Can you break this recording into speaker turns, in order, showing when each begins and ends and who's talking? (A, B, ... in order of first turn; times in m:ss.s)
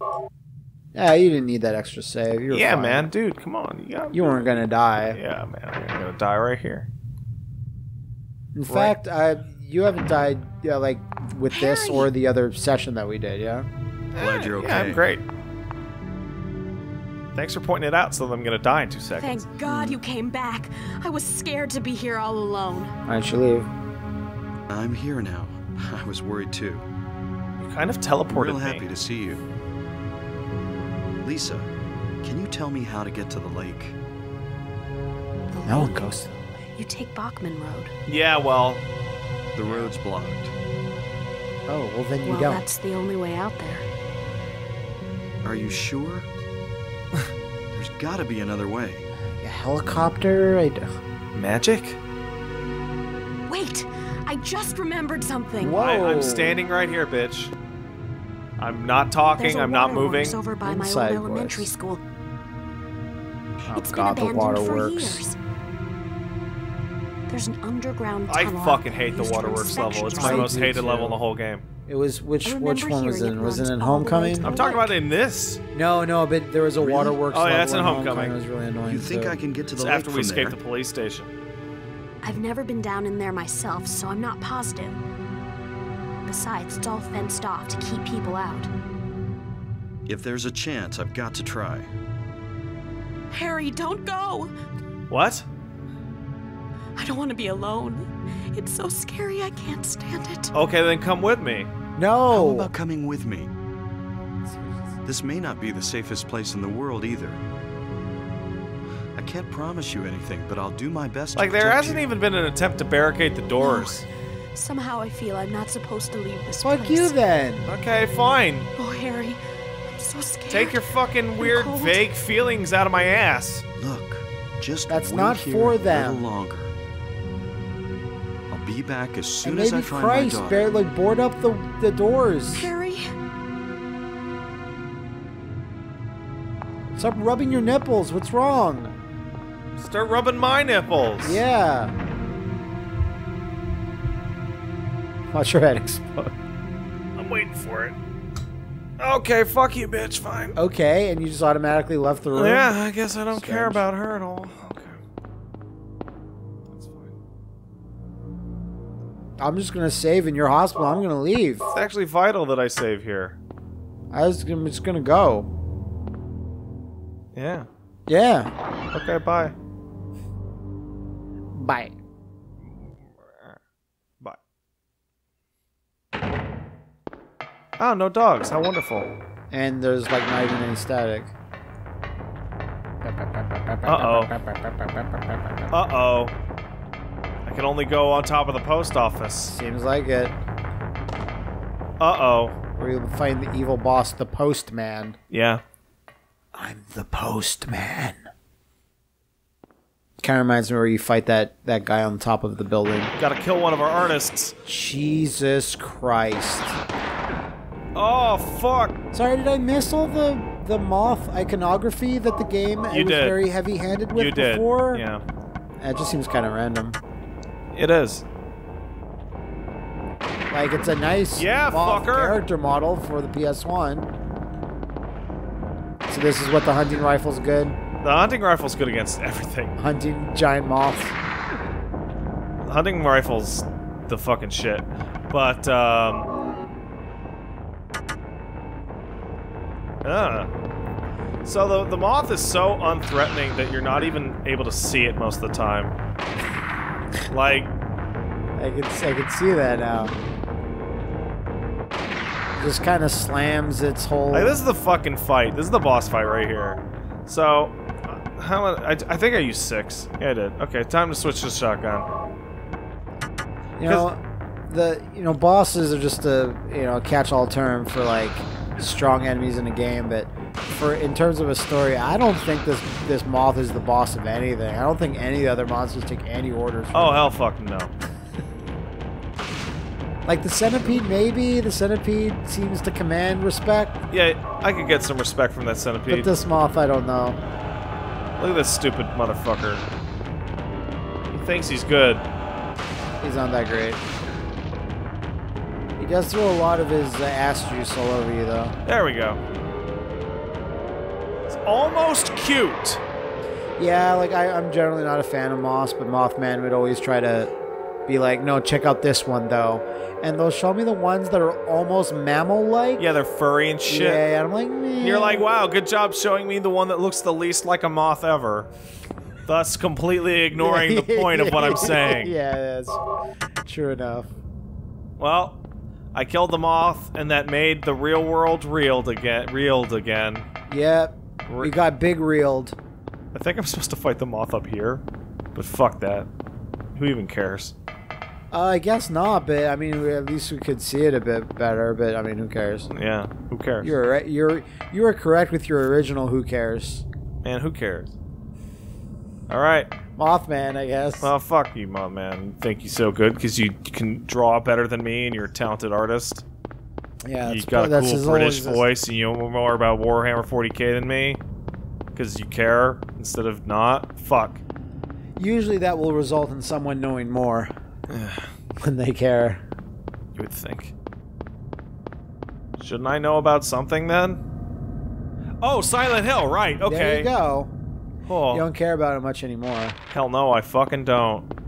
0:00.9-0:03.0 A
0:02.5-0:04.3 B
0:04.1-0:05.2 A
0:05.1-0:06.9 B
0:08.5-0:13.7 A
0:08.7-0:09.0 B
0:11.5-0:12.1 C
0:14.2-0:15.2 B
0:14.2-0:15.1 D
0:17.4-0:19.5 B
0:19.2-0:23.0 C
0:19.6-0:20.0 A
0:23.1-0:23.7 A
0:24.7-0:26.9 D
0:27.6-0:28.8 B
0:28.3-0:29.4 D
0:31.2-0:31.7 D
0:32.2-0:34.0 D
0:35.5-0:36.1 C
0:35.6-0:36.7 A
0:36.8-0:37.9 C
0:38.1-0:38.8 B
0:39.6-0:40.5 D
0:41.7-0:42.6 A
0:42.2-0:43.9 C
0:45.4-0:46.3 D
0:47.7-0:49.1 D
0:49.3-0:50.9 A
0:51.3-0:52.0 B
0:53.5-0:55.8 C
0:55.6-0:56.6 A
0:55.7-0:57.5 B
0:58.6-1:00.4 B
0:59.4-1:02.0 C
1:00.6-1:01.7 A
1:03.6-1:05.2 A
1:03.7-1:05.4 C
1:07.3-1:10.6 C
1:08.3-1:11.6 B
1:10.1-1:11.2 A
1:11.9-1:14.5 A
1:12.4-1:15.0 C
1:14.4-1:15.6 B
1:15.7-1:19.4 A
1:16.8-1:17.2 D
1:17.3-1:18.4 B
1:18.8-1:20.6 D
1:19.8-1:21.3 B
1:22.2-1:25.0 C
1:26.2-1:28.7 C
1:30.1-1:31.9 D
1:33.3-1:34.5 C
1:35.1-1:35.5 B
1:37.0-1:40.5 C
1:40.5-1:41.7 B
1:42.0-1:42.7 A
1:42.3-1:43.5 D
1:44.4-1:45.0 A
1:45.0-1:47.4 D
1:49.2-1:52.0 D
1:51.4-1:54.1 B
1:53.6-1:57.2 C
1:56.6-1:57.7 A
1:57.7-1:58.7 B
1:58.8-1:59.4 C
1:59.9-2:00.8 C
2:00.5-2:03.6 B
2:01.4-2:02.0 C
2:03.8-2:06.7 D
2:04.9-2:06.2 A
2:08.5-2:10.8 D
2:09.4-2:12.7 A
2:12.6-2:13.1 C
2:16.9-2:19.0 A
2:19.8-2:21.4 B
2:21.2-2:22.0 A
2:25.3-2:26.3 A
2:27.2-2:28.0 B
2:29.0-2:30.6 B
2:30.6-2:32.8 A
2:32.3-2:35.0 B
2:33.3-2:33.9 A
2:36.7-2:37.1 B
2:39.4-2:41.6 A
2:41.7-2:43.4 B
2:44.1-2:45.5 A
2:47.3-2:47.7 B
2:48.1-2:48.5 A
2:48.9-2:49.5 B
2:51.5-2:52.0 A
2:52.8-2:53.6 B
2:57.8-2:59.1 B
2:59.5-3:01.3 A
3:03.0-3:05.7 A
3:03.8-3:04.3 B
3:05.7-3:06.4 B
3:07.5-3:09.6 B
3:09.5-3:10.4 A
3:12.0-3:12.6 B
3:12.8-3:15.2 A
3:15.3-3:15.6 B
3:16.5-3:18.3 A
3:20.2-3:23.1 A
3:23.2-3:24.5 B
3:24.7-3:26.8 A
3:28.0-3:29.0 B
3:29.1-3:35.0 A
3:32.9-3:33.4 B
3:34.1-3:35.2 B
3:35.8-3:37.0 A
3:37.7-3:38.2 B
3:40.5-3:44.1 A
3:41.4-3:42.4 B
3:46.1-3:47.8 A
3:48.0-3:49.8 B
3:49.8-3:51.2 A
3:52.6-3:56.3 B
4:00.0-4:00.5 B
4:01.4-4:06.0 B
4:07.3-4:07.7 B
4:08.6-4:10.2 A
4:12.6-4:14.6 A
4:14.3-4:22.1 B
4:23.8-4:37.3 A
4:36.9-4:37.9 B
4:40.3-4:44.0 A
4:44.1-4:46.3 B
4:46.1-4:47.4 A
4:48.4-4:49.8 B
4:51.3-4:52.2 B
4:53.2-4:54.0 A
4:56.0-4:58.8 A
4:58.8-4:59.4 B
5:01.5-5:03.0 B
5:03.8-5:07.5 A
5:08.1-5:13.0 A
5:13.0-5:14.2 B
5:13.9-5:15.5 A
5:15.0-5:18.7 B
5:19.5-5:22.4 B
5:20.6-5:23.0 A
5:23.6-5:24.3 A
5:25.2-5:25.6 B
5:26.1-5:30.5 B
5:30.7-5:32.8 A
5:31.5-5:31.7 B
5:33.3-5:35.0 B
5:35.6-5:36.3 B
5:37.0-5:37.8 B
5:38.5-5:42.9 A
5:42.9-5:43.9 B
5:43.8-5:47.0 A
5:47.4-5:48.1 B
5:49.5-5:49.9 B
5:50.2-5:51.3 A
5:51.2-5:56.4 B
5:57.2-5:58.9 A
5:57.4-6:01.4 B
6:02.2-6:04.6 B
6:05.4-6:07.7 A
6:08.1-6:08.5 B
6:08.8-6:09.6 A
6:10.4-6:10.9 B
6:12.8-6:14.4 B
6:15.6-6:17.3 B
6:16.9-6:17.7 A
6:18.3-6:18.7 B
6:18.5-6:20.0 A
6:20.1-6:21.5 B